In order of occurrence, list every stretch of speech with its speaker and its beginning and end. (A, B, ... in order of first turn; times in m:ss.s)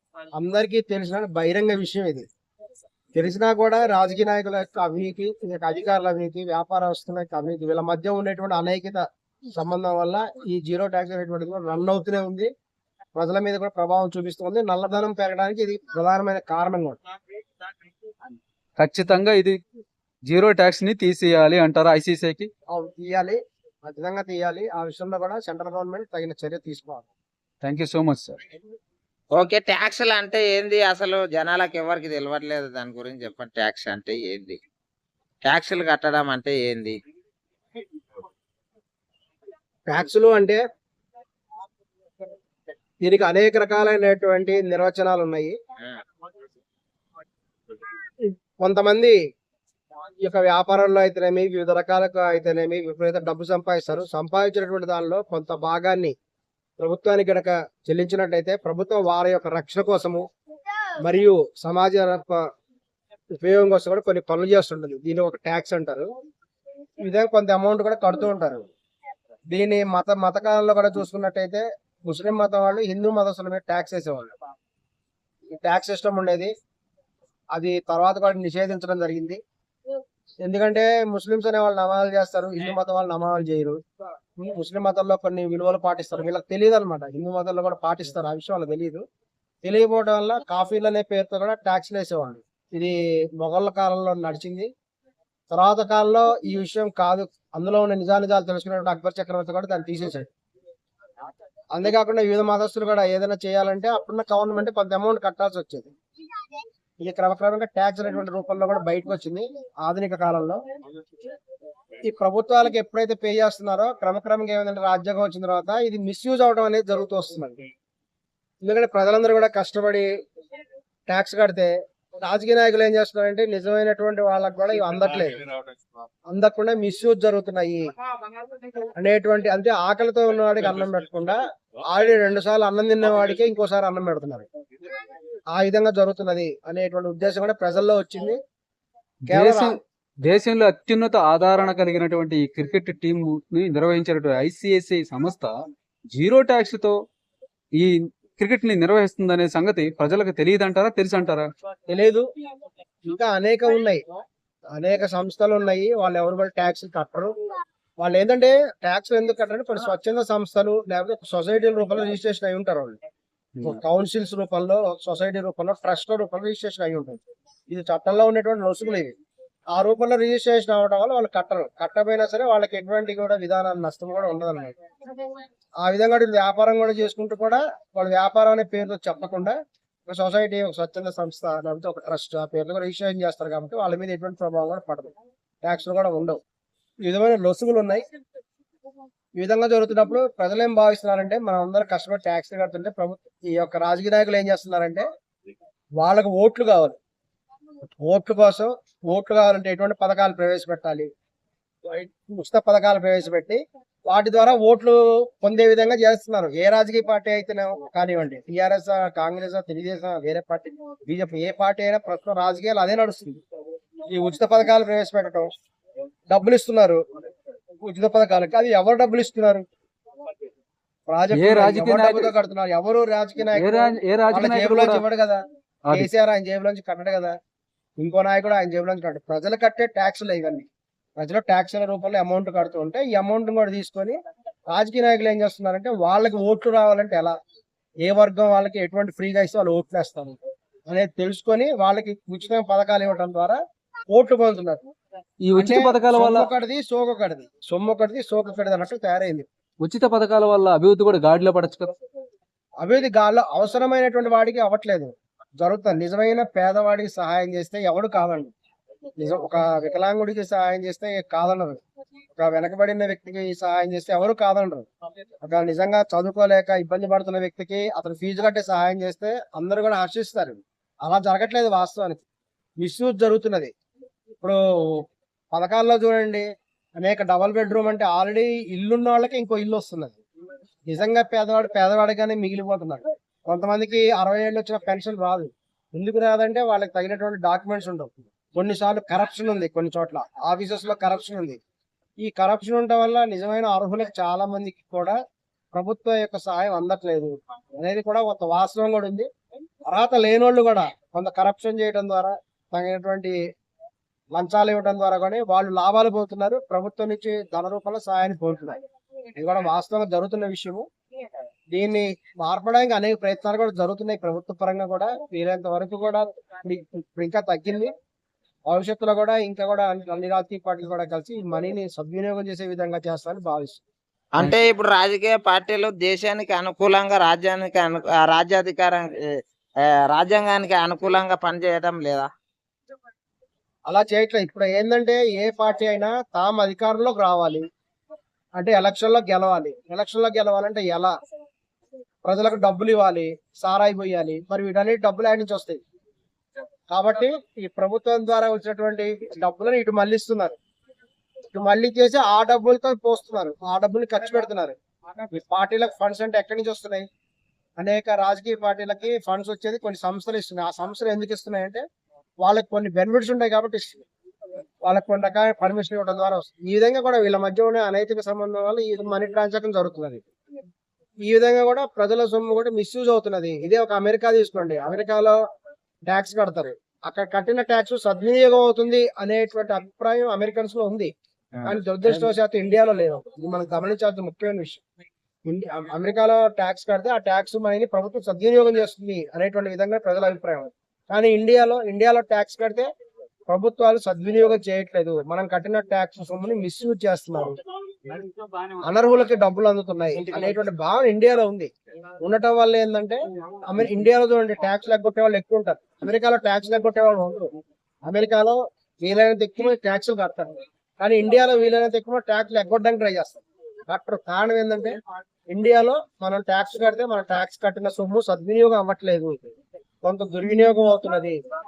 0:00.4-0:02.2 A
0:03.1-0:12.5 A
0:13.2-0:17.0 A
0:18.8-0:19.6 B
0:20.3-0:22.5 B
0:22.7-0:27.1 A
0:27.6-0:28.4 B
0:29.3-0:34.6 C
0:35.4-0:37.0 C
0:39.9-0:40.6 A
0:43.0-0:45.6 A
0:48.6-0:49.2 A
0:50.2-0:56.2 A
0:56.8-1:00.2 A
1:01.0-1:02.4 A
1:03.4-1:06.1 A
1:07.0-1:08.7 A
1:09.5-1:14.3 A
1:15.5-1:16.5 A
1:17.5-1:19.4 A
1:20.4-1:23.8 A
1:24.4-1:29.0 A
1:29.6-1:34.7 A
1:35.5-1:40.3 A
1:41.7-1:45.9 A
1:47.0-1:50.6 A
1:52.0-1:57.6 A
1:58.6-2:00.1 A
2:01.1-2:01.7 A
2:02.2-2:05.4 A
2:06.3-2:07.8 A
2:09.0-2:14.5 A
2:15.6-2:18.4 A
2:19.3-2:25.6 B
2:19.3-2:19.8 A
2:26.1-2:27.0 B
2:27.8-2:31.5 B
2:31.9-2:32.2 A
2:33.1-2:34.0 A
2:34.8-2:37.3 A
2:38.0-2:43.0 A
2:43.6-2:49.1 A
2:49.7-2:54.8 A
2:55.8-2:59.6 A
3:00.1-3:06.4 A
3:07.0-3:08.0 A
3:09.4-3:15.1 A
3:16.0-3:17.0 A
3:18.0-3:21.1 A
3:21.9-3:33.4 A
3:34.1-3:35.5 A
3:36.3-3:37.0 A
3:37.8-3:39.7 A
3:41.1-3:45.4 A
3:41.3-3:42.3 B
3:43.6-3:45.0 B
3:45.9-3:47.4 A
3:48.0-3:50.7 A
3:51.2-3:54.2 A
3:54.7-3:57.4 A
3:58.1-4:00.4 A
4:00.9-4:03.6 A
4:04.1-4:04.8 A
4:05.4-4:06.5 B
4:05.6-4:09.5 A
4:09.8-4:11.9 B
4:12.8-4:18.5 A
4:19.2-4:21.8 A
4:22.4-4:24.9 A
4:25.4-4:32.2 A
4:32.8-4:33.7 A
4:34.4-4:36.4 A
4:37.0-4:40.2 A
4:40.9-4:51.6 A
4:52.2-4:55.2 A
4:55.7-4:59.3 A
4:59.8-5:03.3 A
5:04.3-5:08.8 A
5:09.4-5:10.8 A
5:11.7-5:17.9 A
5:18.7-5:23.8 A
5:24.4-5:29.2 C
5:30.1-5:32.3 C
5:33.9-5:37.6 A
5:38.6-5:41.1 A
5:42.2-5:45.8 A
5:46.9-5:50.5 A
5:51.5-5:57.1 A
5:57.8-6:01.8 A
6:02.4-6:04.0 A
6:04.8-6:10.2 A
6:11.2-6:15.4 A
6:16.1-6:21.1 A
6:21.6-6:22.3 C
6:21.6-6:24.8 A
6:25.4-6:32.9 A
6:33.5-6:37.6 A
6:38.8-6:41.7 A
6:42.2-6:47.5 A
6:48.0-6:55.0 A
6:55.5-6:59.5 A
7:00.0-7:01.4 A